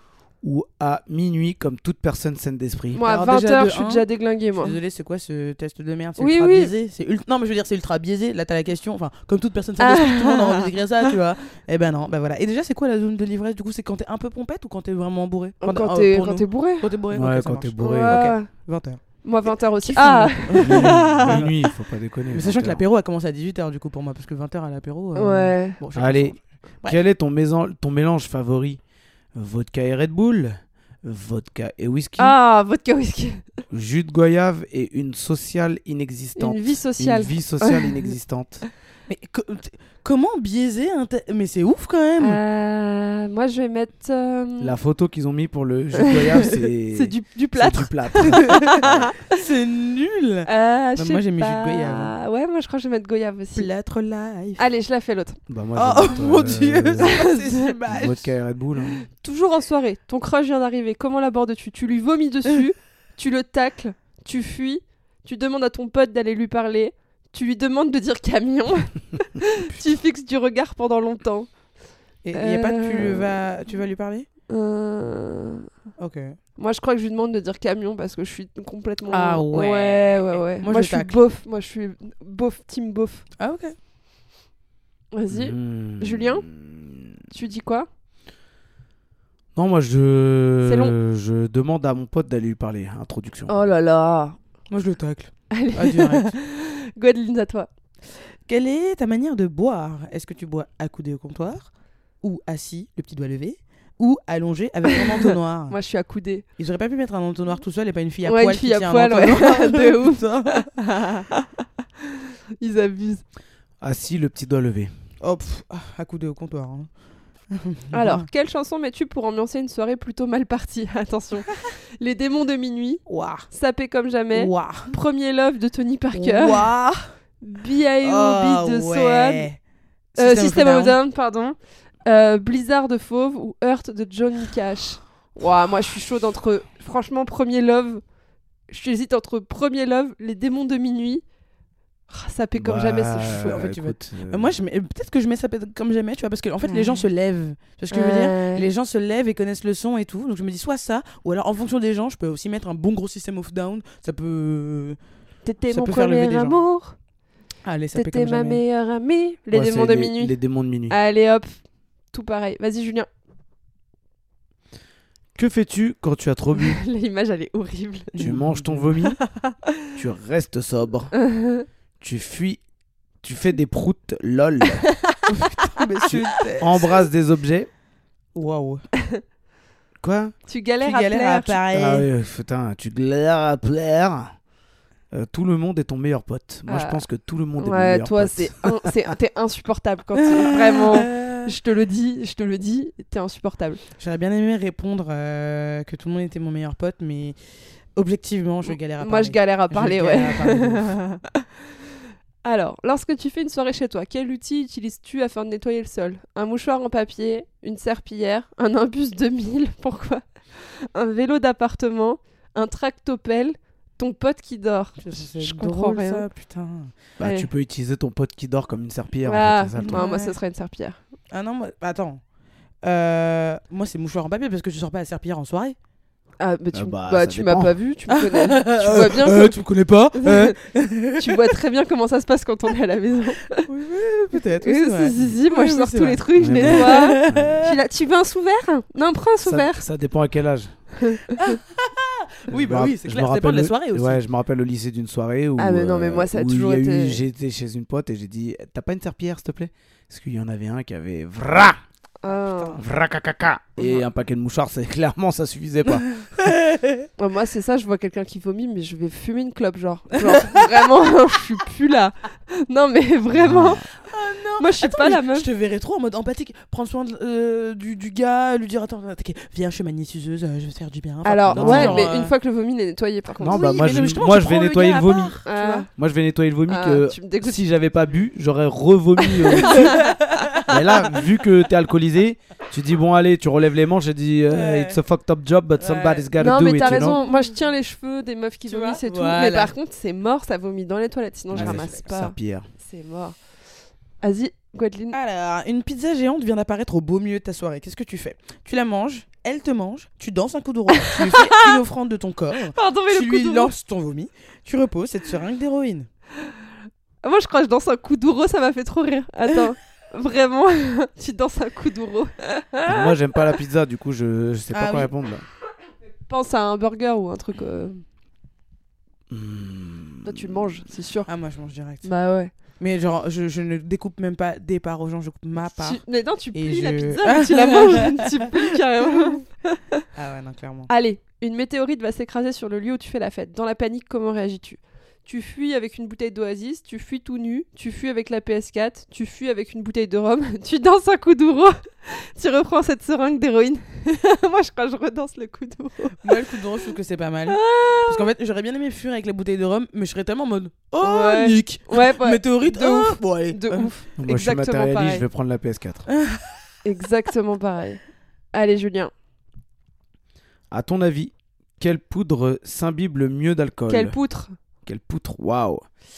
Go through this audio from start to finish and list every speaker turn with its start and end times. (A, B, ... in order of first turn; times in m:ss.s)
0:00.4-0:03.0 A
0:02.9-0:04.8 B
0:03.0-0:21.5 C
0:06.2-0:06.7 B
0:09.8-0:11.1 B
0:15.6-0:16.9 B
0:17.1-0:18.2 A
0:17.8-0:18.5 B
0:19.2-0:21.4 B
0:20.6-0:22.8 A
0:22.3-0:27.0 C
0:25.2-0:25.8 B
0:25.9-0:28.8 A
0:29.3-0:32.4 A
0:32.2-0:33.4 B
0:33.7-0:38.7 A
0:36.4-0:38.1 B
0:39.1-0:42.4 C
0:42.2-0:44.7 B
0:44.6-0:49.1 A
0:46.0-0:49.4 B
0:49.3-0:52.1 C
0:50.4-0:53.7 B
0:53.5-0:54.6 C
0:54.6-0:55.4 B
0:55.5-0:57.2 A
0:55.8-0:58.3 C
0:57.0-0:57.7 B
0:57.9-0:59.0 A
0:59.1-1:11.5 B
1:12.2-1:14.3 C
1:12.3-1:13.4 B
1:14.5-1:15.7 B
1:16.0-1:16.4 C
1:16.6-1:23.2 B
1:19.1-1:21.2 C
1:23.4-1:23.7 C
1:25.1-1:26.4 B
1:25.3-1:27.1 A
1:27.3-1:27.9 B
1:29.5-1:33.6 A
1:30.6-1:30.9 B
1:33.5-1:34.4 B
1:34.7-1:36.3 C
1:35.5-1:37.7 B
1:38.5-1:45.8 C
1:45.7-1:46.4 B
1:46.6-1:50.7 C
1:48.2-1:51.6 B
1:52.6-1:53.2 B
1:53.8-1:54.9 A
1:55.2-1:56.9 C
1:57.5-1:58.2 C
1:57.9-2:06.7 B
2:03.1-2:03.5 C
2:04.3-2:04.9 C
2:06.1-2:07.0 C
2:07.4-2:09.4 B
2:08.0-2:09.6 C
2:10.1-2:11.0 C
2:10.2-2:18.0 B
2:18.7-2:21.2 B
2:22.1-2:23.9 B
2:22.6-2:24.6 A
2:24.3-2:35.0 C
2:26.6-2:27.0 B
2:27.9-2:28.7 B
2:35.4-2:37.0 B
2:35.7-2:36.6 C
2:37.6-2:38.6 C
2:37.9-2:40.4 B
2:39.5-2:41.0 A
2:40.9-2:41.5 B
2:42.1-2:43.1 B
2:45.3-2:46.8 A
2:46.6-2:48.1 B
2:48.1-2:49.0 C
2:48.2-2:49.2 A
2:49.4-2:49.7 B
2:49.9-2:51.2 A
2:51.2-2:51.7 B
2:52.0-2:52.6 A
2:53.2-2:54.9 A
2:55.3-2:56.9 C
2:56.0-2:57.7 A
2:58.3-2:58.8 C
3:00.0-3:00.3 A
3:00.5-3:01.6 B
3:00.8-3:02.0 C
3:01.7-3:04.3 A
3:05.1-3:08.9 A
3:06.7-3:07.0 B
3:07.6-3:13.8 B
3:10.2-3:11.5 C
3:14.0-3:17.4 C
3:17.9-3:21.0 C
3:18.6-3:21.4 B
3:22.4-3:36.2 B
3:35.0-3:36.9 C
3:37.2-3:37.5 B
3:37.2-3:40.0 A
3:39.2-3:41.0 B
3:39.8-3:40.4 C
3:41.3-3:42.2 C
3:42.8-3:45.8 C
3:46.4-3:49.6 B
3:46.7-3:47.7 A
3:48.1-3:51.6 C
3:50.1-3:50.6 B
3:51.2-3:53.7 B
3:53.6-3:57.8 C
3:54.6-3:59.8 B
3:56.3-3:57.7 A
3:59.4-4:00.8 A
4:01.0-4:01.6 B
4:01.4-4:04.2 C
4:02.5-4:11.8 A
4:05.6-4:07.2 B
4:12.2-4:12.8 B
4:12.2-4:12.8 C
4:12.8-4:16.2 A
4:15.9-4:17.1 C
4:17.2-4:23.9 B
4:20.2-4:20.9 C
4:23.3-4:23.8 A
4:24.1-4:32.3 C
4:24.6-4:25.5 B
4:31.2-4:33.8 B
4:31.5-4:32.1 A
4:33.3-4:35.9 C
4:33.4-4:35.4 A
4:35.4-4:35.9 B
4:36.0-4:40.0 A
4:36.7-4:37.6 B
4:39.2-4:40.1 B
4:39.7-4:41.2 C
4:40.6-4:47.2 A
4:44.5-4:45.0 C
4:45.8-4:47.6 C
4:46.4-4:53.4 B
4:48.7-4:49.7 C
4:51.5-4:52.7 A
4:51.5-4:52.0 C
4:54.2-4:55.2 B
4:55.1-5:06.1 C
5:01.0-5:01.7 B
5:02.7-5:03.7 B
5:07.2-5:13.2 B
5:12.8-5:15.4 A
5:14.7-5:15.1 C
5:16.2-5:18.0 B
5:19.3-5:20.6 A
5:20.2-5:21.3 B
5:21.3-5:22.1 C
5:22.0-5:22.5 B
5:22.8-5:26.0 C
5:25.8-5:30.0 B
5:26.5-5:28.5 C
5:29.1-5:29.4 C
5:30.1-5:30.9 C
5:30.9-5:47.0 B
5:46.2-5:53.9 C
5:47.5-5:48.3 B
5:51.0-5:55.2 B
5:54.2-5:56.1 A
5:56.1-5:56.6 C
5:56.8-5:58.0 B
5:58.5-5:59.1 B
6:00.7-6:04.2 A
6:03.9-6:04.5 B
6:04.8-6:05.8 A